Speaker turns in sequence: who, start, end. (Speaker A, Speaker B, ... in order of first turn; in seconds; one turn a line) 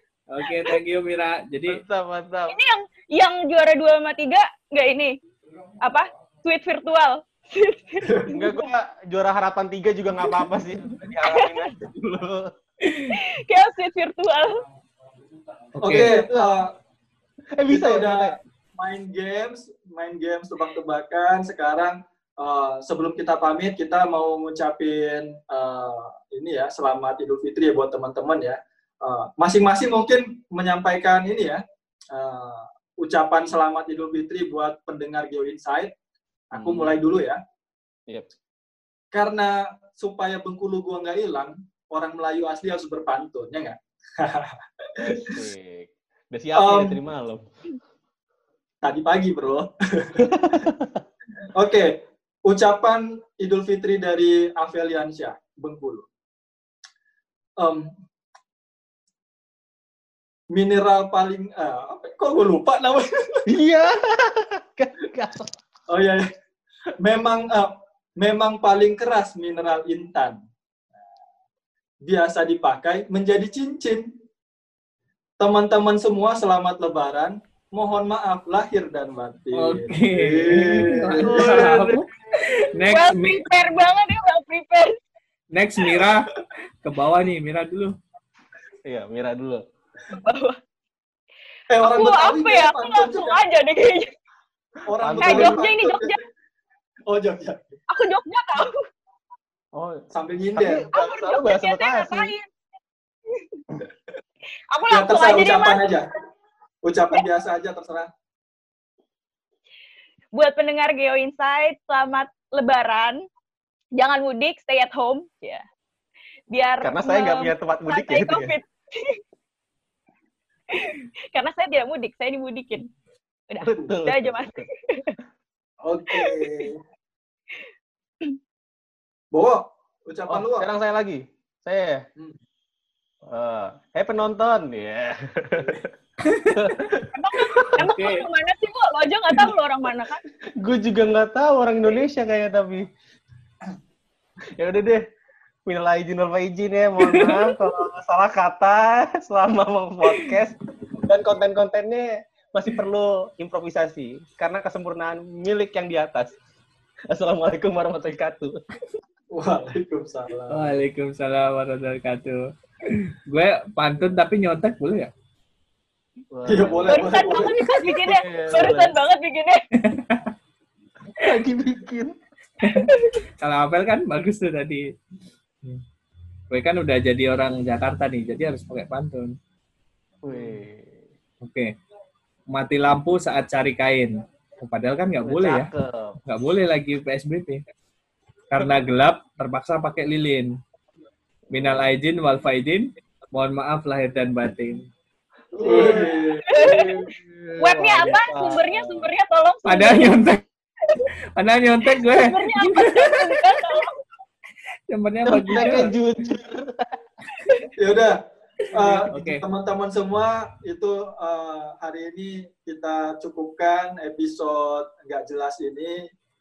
Speaker A: 0.3-1.8
Speaker B: 1.7-2.6
Speaker C: 2.5-5.2
Speaker C: 5.8-8.3
Speaker D: 8.0-8.4
Speaker B: 8.3-12.5
Speaker C: 11.2-11.7
Speaker A: 12.8-13.2
Speaker C: 13.1-14.6
Speaker A: 15.8-16.1
Speaker D: 15.8-16.7
Speaker B: 15.9-16.6
Speaker B: 17.6-18.4
Speaker D: 17.7-35.9
Speaker D: 36.5-37.4
Speaker B: 36.5-37.0
Speaker D: 39.1-45.4
Speaker B: 45.0-47.4
Speaker D: 46.5-47.0
Speaker D: 48.8-50.3
Speaker B: 50.2-51.0
Speaker D: 51.5-56.1
Speaker D: 57.6-57.9
Speaker D: 60.5-63.5
Speaker B: 63.5-65.5
Speaker D: 65.9-66.3
Speaker D: 67.0-70.4
Speaker D: 72.0-74.1
Speaker D: 75.4-81.7
Speaker A: 79.5-83.4
Speaker B: 81.2-82.6
Speaker C: 82.9-85.0
Speaker A: 85.5-88.0
Speaker B: 88.8-89.6
Speaker C: 90.2-90.6
Speaker D: 91.7-93.4
Speaker C: 91.8-94.1
Speaker D: 94.9-96.2
Speaker B: 95.0-95.7
Speaker C: 95.2-96.2
Speaker D: 97.1-97.6
Speaker C: 97.9-98.8
Speaker B: 99.7-100.0
Speaker D: 100.1-100.8
Speaker B: 100.6-102.3
Speaker C: 100.9-102.5
Speaker C: 103.3-103.6
Speaker C: 104.7-105.8
Speaker D: 104.9-106.1
Speaker D: 106.8-108.1
Speaker C: 110.3-113.2
Speaker C: 114.0-115.6
Speaker C: 116.5-119.2
Speaker B: 116.8-118.5
Speaker C: 120.7-122.9
Speaker C: 123.5-125.2
Speaker B: 123.6-124.7
Speaker D: 125.8-126.8
Speaker C: 126.1-126.6
Speaker D: 129.3-130.7
Speaker B: 130.3-132.1
Speaker B: 133.3-135.9
Speaker A: 136.3-136.6
Speaker B: 136.5-137.9
Speaker C: 137.1-140.2
Speaker A: 137.8-138.3
Speaker B: 140.6-142.9
Speaker B: 144.6-145.0
Speaker B: 145.7-156.3
Speaker A: 147.0-147.6
Speaker B: 157.1-158.6
Speaker D: 159.3-160.8
Speaker A: 160.5-165.1
Speaker B: 166.3-168.9
Speaker D: 166.5-167.6
Speaker C: 166.9-169.6
Speaker A: 169.8-170.3
Speaker B: 171.2-172.2
Speaker A: 172.6-174.8
Speaker C: 172.6-173.2
Speaker A: 176.5-179.4
Speaker B: 180.2-181.1
Speaker A: 181.4-181.7
Speaker A: 182.5-185.7
Speaker B: 185.2-186.2
Speaker A: 186.3-187.6
Speaker A: 188.5-190.5
Speaker B: 191.5-191.9
Speaker A: 191.5-194.9
Speaker B: 195.6-199.1
Speaker D: 195.6-196.6
Speaker C: 196.5-196.9
Speaker C: 197.6-200.2
Speaker A: 199.7-200.4
Speaker A: 201.4-203.2
Speaker C: 201.9-204.0
Speaker A: 204.9-205.9
Speaker B: 205.2-206.9
Speaker D: 207.8-208.2
Speaker D: 208.7-216.1
Speaker A: 208.8-209.4